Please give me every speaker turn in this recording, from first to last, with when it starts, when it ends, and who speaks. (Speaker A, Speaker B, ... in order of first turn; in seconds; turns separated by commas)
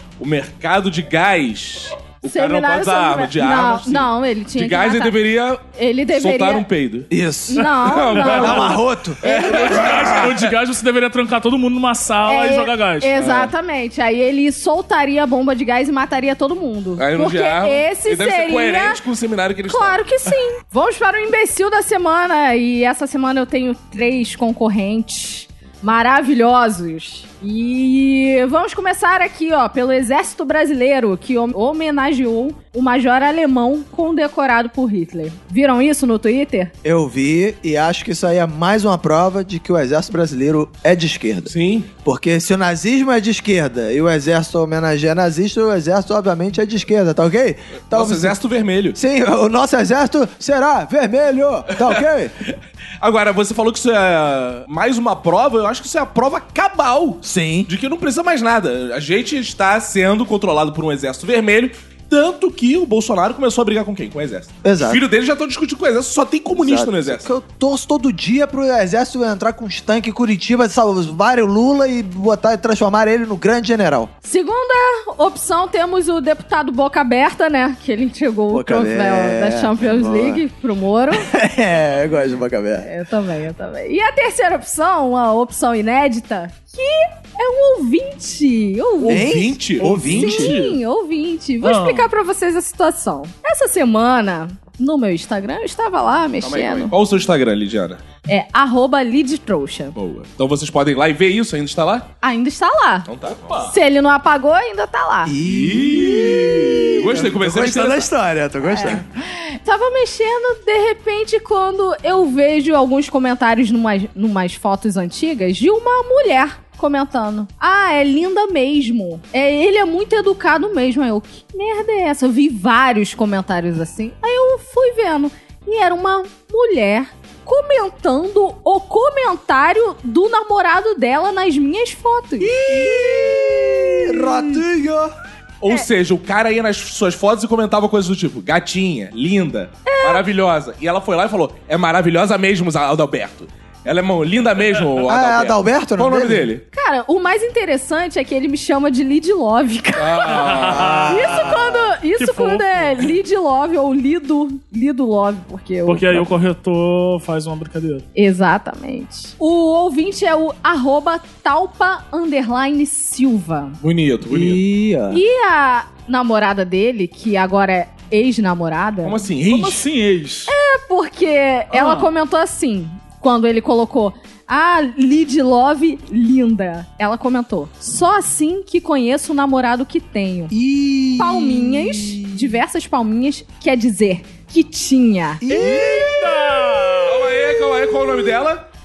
Speaker A: 0.2-5.6, Speaker B: 2.3-5.2, Speaker B: 5.7-6.6, Speaker A: 6.1-7.1, Speaker C: 7.1-7.7, Speaker B: 7.5-9.9, Speaker A: 7.7-10.5, Speaker C: 8.2-9.2, Speaker D: 9.4-13.2, Speaker B: 12.2-19.0, Speaker A: 13.2-13.5, Speaker A: 17.0-20.0, Speaker B: 19.7-36.7, Speaker C: 36.8-41.5, Speaker A: 41.5-41.9, Speaker C: 42.0-48.4, Speaker A: 47.9-49.0, Speaker C: 48.9-52.3, Speaker A: 51.7-67.3, Speaker C: 57.2-57.7, Speaker C: 64.6-65.0, Speaker C: 66.5-74.1, Speaker B: 74.2-81.3, Speaker C: 78.5-80.4, Speaker C: 81.1-82.9, Speaker B: 82.8-89.3, Speaker D: 89.0-90.8, Speaker C: 89.1-90.5, Speaker A: 89.1-89.9, Speaker B: 90.1-96.9, Speaker D: 91.6-92.1, Speaker A: 96.4-98.0, Speaker B: 98.3-99.9, Speaker A: 100.0-102.1, Speaker B: 102.2-105.3, Speaker A: 103.1-103.7, Speaker C: 105.2-109.0, Speaker A: 105.4-108.1, Speaker B: 108.7-132.6, Speaker C: 132.4-135.1, Speaker A: 135.6-146.6, Speaker B: 139.8-140.2, Speaker C: 145.0-146.5, Speaker B: 146.7-156.2, Speaker A: 150.0-151.1, Speaker D: 150.3-151.1, Speaker C: 150.6-151.9, Speaker D: 152.2-153.1, Speaker D: 155.8-158.1, Speaker B: 158.1-163.8, Speaker A: 163.8-164.6, Speaker C: 164.3-165.2, Speaker B: 165.1-169.2, Speaker A: 169.0-169.8, Speaker D: 169.5-170.5, Speaker B: 170.5-180.5, Speaker D: 171.7-172.1, Speaker C: 180.5-182.6, Speaker B: 181.2-185.4, Speaker C: 185.4-187.1, Speaker D: 185.5-187.2, Speaker A: 187.1-188.6, Speaker B: 187.3-188.4